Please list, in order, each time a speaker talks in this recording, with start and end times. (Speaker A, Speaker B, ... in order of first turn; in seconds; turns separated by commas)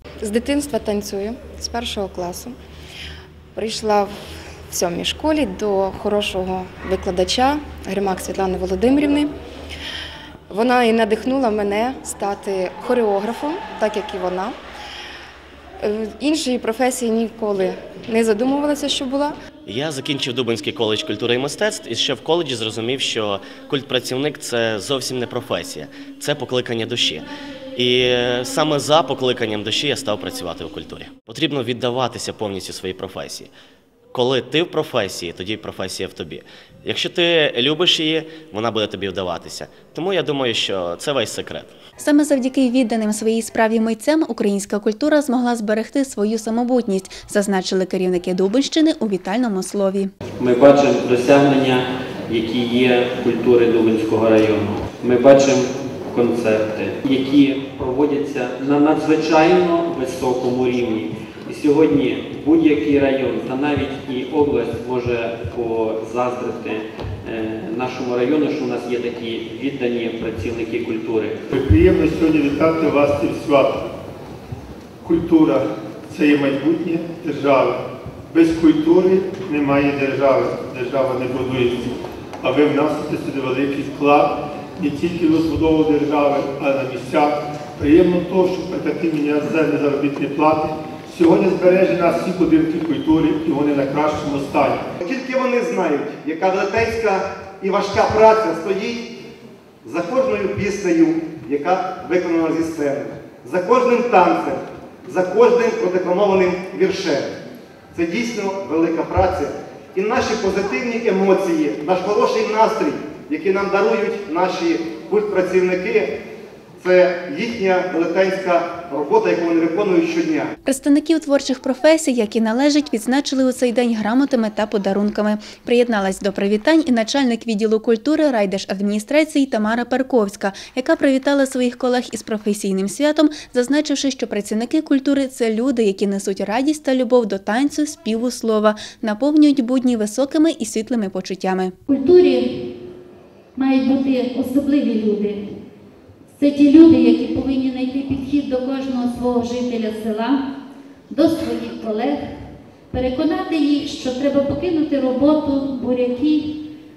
Speaker A: 0.2-2.6, Speaker A: 3.5-4.2, Speaker A: 4.7-9.3, Speaker A: 10.5-14.6, Speaker A: 15.8-19.4, Speaker B: 19.6-33.5, Speaker B: 34.1-41.7, Speaker C: 42.0-50.1, Speaker D: 50.4-71.4, Speaker E: 71.5-73.8, Speaker E: 75.0-94.9, Speaker F: 95.0-99.1, Speaker F: 99.8-107.3, Speaker F: 107.9-116.1, Speaker F: 116.8-120.5, Speaker C: 120.6-141.8, Speaker G: 141.9-142.4, Speaker G: 143.5-145.5, Speaker G: 146.3-150.4, Speaker G: 151.1-152.2, Speaker G: 152.9-156.6